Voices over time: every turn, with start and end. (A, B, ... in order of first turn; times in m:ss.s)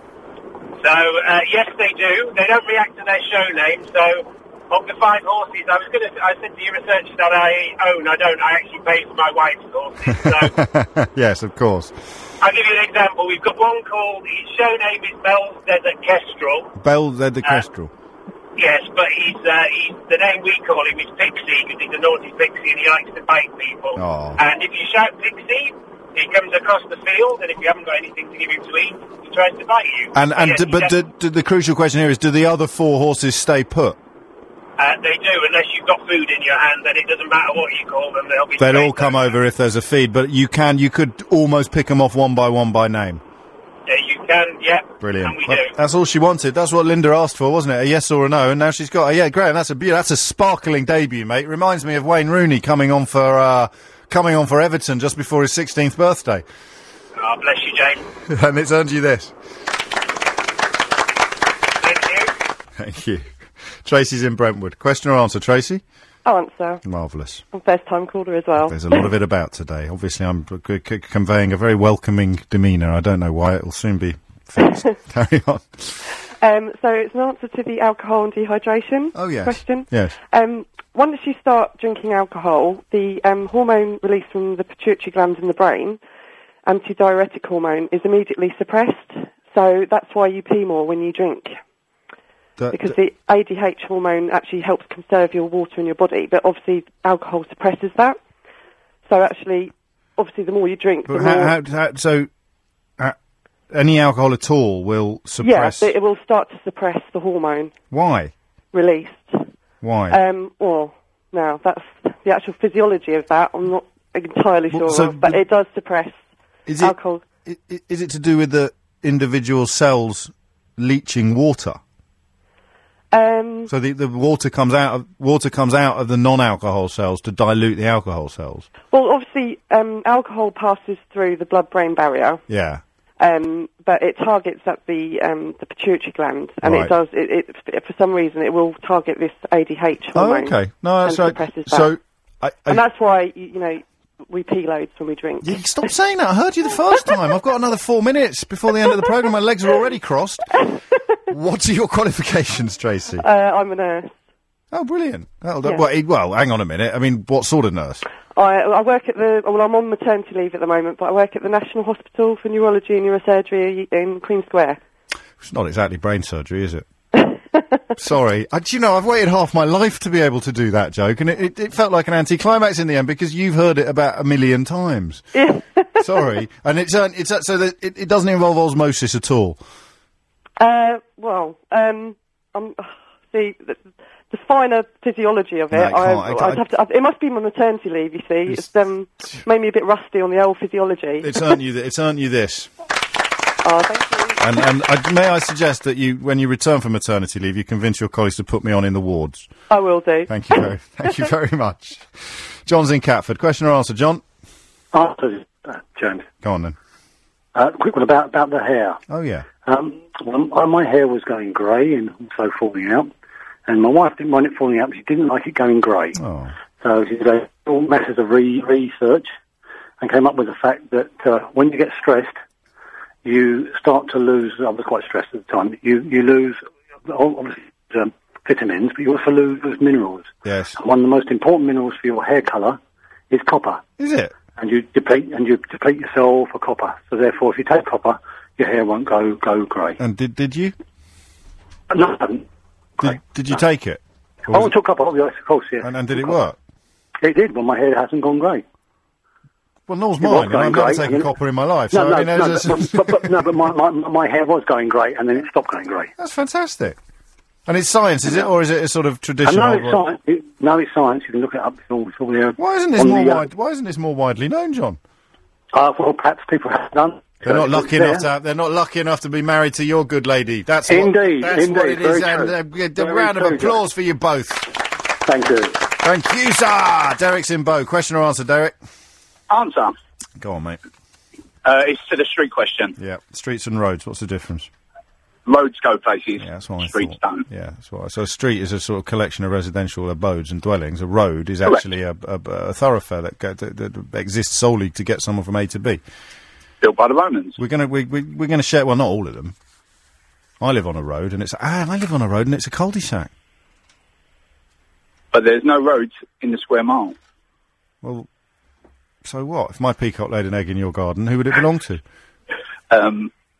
0:00.8-0:10.5 A
0:10.1-0:11.9 B
0:12.4-0:16.7 A
0:16.8-0:17.9 B
0:18.6-0:30.9 A
0:24.0-0:24.4 B
0:30.1-0:34.0 B
0:34.8-0:39.3 A
0:38.6-0:43.2 B
0:43.9-0:45.7 A
0:45.0-0:56.4 B
0:57.2-0:58.0 A
0:58.3-0:59.3 B
1:01.8-1:02.3 A
1:02.8-1:03.3 B
1:03.8-1:05.8 B
1:06.2-1:06.8 C
1:06.8-1:07.4 B
1:07.5-1:09.1 C
1:08.6-1:16.0 B
1:16.4-1:26.0 C
1:19.1-1:20.1 B
1:26.6-1:31.5 C
1:32.6-1:33.0 B
1:32.7-1:38.2 C
1:39.0-1:41.5 C
1:41.1-1:42.3 B
1:43.7-1:45.9 B
1:45.4-1:47.7 C
1:47.9-1:48.3 B
1:48.7-1:49.4 C
1:49.8-1:50.2 B
1:50.1-1:56.2 C
1:54.7-1:55.4 B
1:56.7-2:01.8 B
1:56.8-1:57.2 C
2:03.1-2:03.7 C
2:03.7-2:08.7 B
2:08.9-2:12.4 C
2:12.5-2:12.8 B
2:13.2-2:21.9 C
2:16.6-2:16.9 B
2:20.1-2:22.8 B
2:22.7-2:25.9 C
2:25.4-2:30.5 B
2:31.3-2:33.2 B
2:33.2-2:34.1 C
2:34.7-2:38.0 B
2:38.3-2:44.8 C
2:45.4-2:46.8 B
2:47.2-2:47.8 C
2:48.0-2:55.2 B
2:55.3-2:56.2 C
2:56.0-2:59.6 B
3:00.6-3:11.6 C
3:05.7-3:06.6 B
3:11.2-3:12.7 B
3:13.6-3:14.6 C
3:14.4-3:19.5 B
3:19.7-3:21.3 C
3:20.3-3:24.2 B
3:24.9-3:26.3 D
3:26.4-3:26.8 B
3:27.5-3:29.0 D
3:29.1-3:29.5 B
3:29.6-3:33.1 D
3:33.7-3:36.2 D
3:36.2-3:36.5 B
3:36.8-3:39.3 D
3:40.0-3:42.3 D
3:43.2-3:52.8 D
3:50.4-3:50.8 B
3:53.3-3:53.8 D
3:54.0-3:54.4 B
3:54.5-4:00.0 D
4:00.0-4:00.7 B
4:01.9-4:02.4 D
4:03.0-4:04.7 B
4:04.5-4:06.3 D
4:05.8-4:06.6 B
4:07.2-4:08.6 D
4:09.9-4:13.4 B
4:10.2-4:11.3 D
4:11.9-4:16.1 D
4:16.2-4:17.0 B
4:17.7-4:20.0 B
4:19.4-4:23.4 D
4:22.6-4:25.0 B
4:25.7-4:28.2 D
4:27.4-4:34.7 B
4:30.9-4:33.8 D
4:35.2-4:35.8 D
4:36.0-4:38.8 B
4:39.5-4:39.9 E
4:40.4-4:40.8 B
4:41.6-4:42.9 E
4:43.0-4:44.7 B
4:45.4-4:47.4 E
4:46.4-4:56.0 B
4:56.8-4:57.6 E
4:57.6-4:59.5 B
5:00.6-5:03.3 B
5:05.3-5:07.2 E
5:08.0-5:08.3 B
5:09.2-5:12.0 B
5:12.9-5:13.3 E